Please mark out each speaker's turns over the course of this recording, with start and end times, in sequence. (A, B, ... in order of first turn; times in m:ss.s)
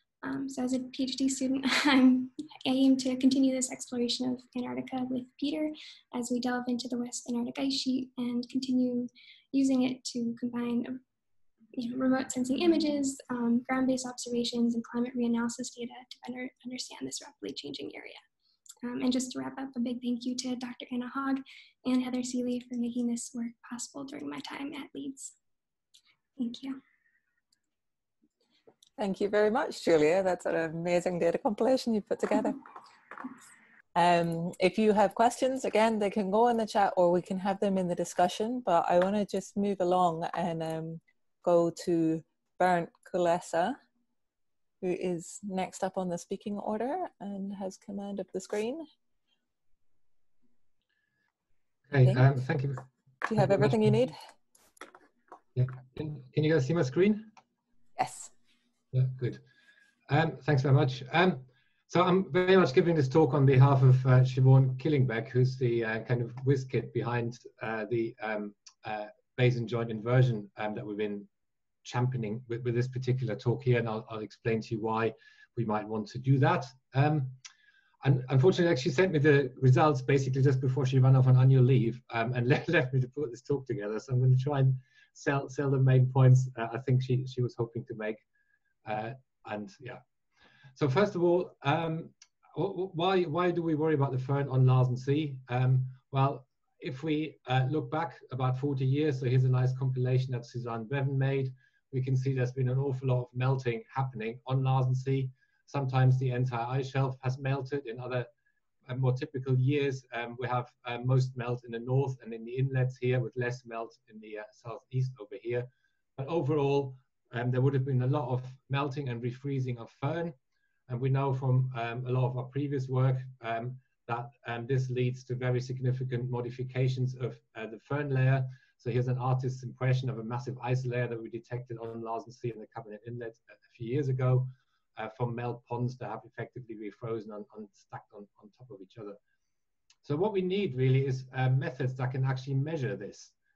0:00.2-0:11.0 A
0:11.8-0:18.2 A
0:18.8-0:25.3 A
0:26.4-0:26.8 A
0:29.0-0:32.6 B
0:34.0-0:43.8 B
0:44.8-0:48.8 B
0:51.9-0:53.9 C
0:53.3-0:54.2 B
0:55.6-0:57.3 C
0:58.0-0:58.3 B
0:58.9-0:59.4 C
1:00.1-1:11.3 C
1:11.8-1:17.4 C
1:18.0-1:28.2 C
1:28.8-1:30.0 C
1:30.8-1:48.3 C
1:48.9-2:00.4 C
2:00.9-2:19.2 C
2:20.0-2:23.3 C